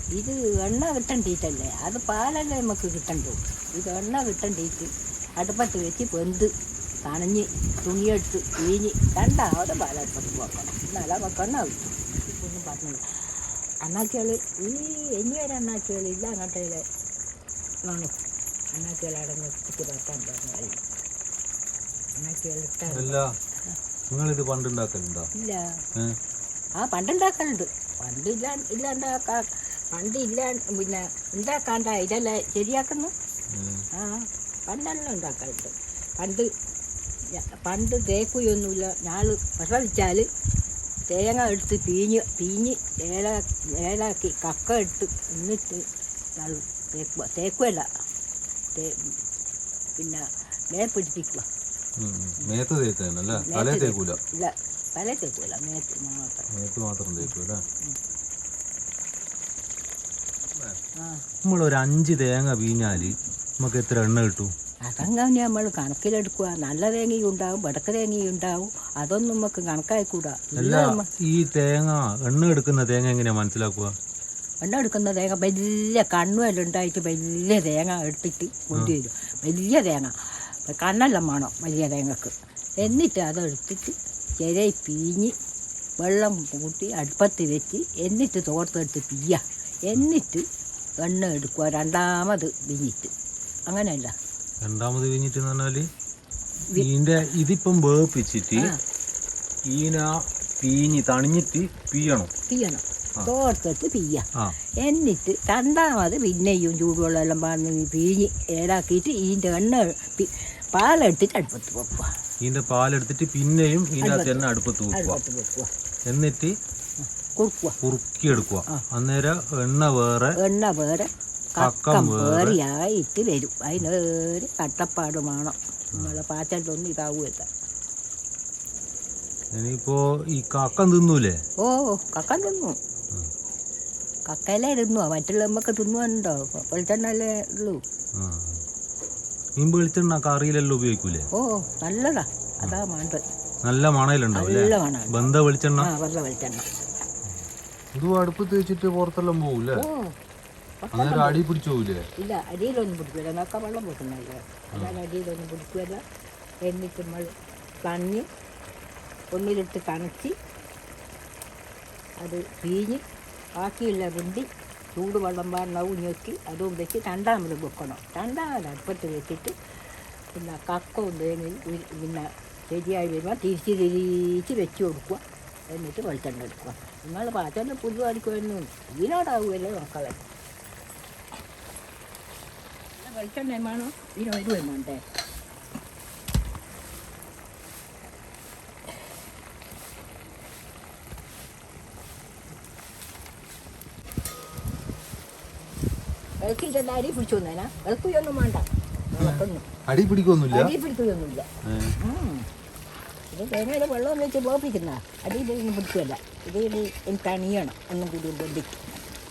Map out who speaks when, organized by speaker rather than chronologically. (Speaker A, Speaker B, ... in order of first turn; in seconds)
Speaker A: 0.1-6.5, 7.0-13.2, 13.8-16.8, 17.9-18.1, 18.7-20.8, 22.1-23.8, 25.3-25.8, 26.8-33.1, 33.9-36.5, 37.3-40.3, 41.1-47.9, 48.7-49.2, 50.0-51.4, 53.3-56.5, 61.0-61.2, 64.8-71.1, 74.6-85.3, 86.0-90.5, 91.0-93.1, 93.7-94.1, 102.5-104.2, 104.8-112.1, 114.0-115.7, 117.0-117.8, 120.4-127.5, 131.6-132.8, 134.3-137.8, 141.3-143.2, 144.3-146.7, 149.7-150.2, 150.8-151.4, 152.2-156.0, 156.6-157.3, 157.8-158.2, 159.3-160.3, 162.2-163.0, 163.6-169.5, 170.3-180.2, 182.9-185.0, 196.4-199.7, 200.5-201.5, 202.0-202.5, 203.3-208.8
Speaker B: 22.9-23.3, 24.1-25.3, 33.5-33.9, 52.0-54.2, 56.5-57.6, 60.5-60.8, 61.4-64.5, 70.5-73.9, 94.6-95.9, 96.7-98.7, 99.7-102.3, 112.4-115.2, 116.1-116.5, 117.8-120.3, 121.6-122.6, 129.5-131.4, 138.1-138.6, 139.6-141.3, 143.6-145.9, 147.9-149.9, 150.9-152.1, 154.7-155.0, 199.2-200.7, 201.6-201.9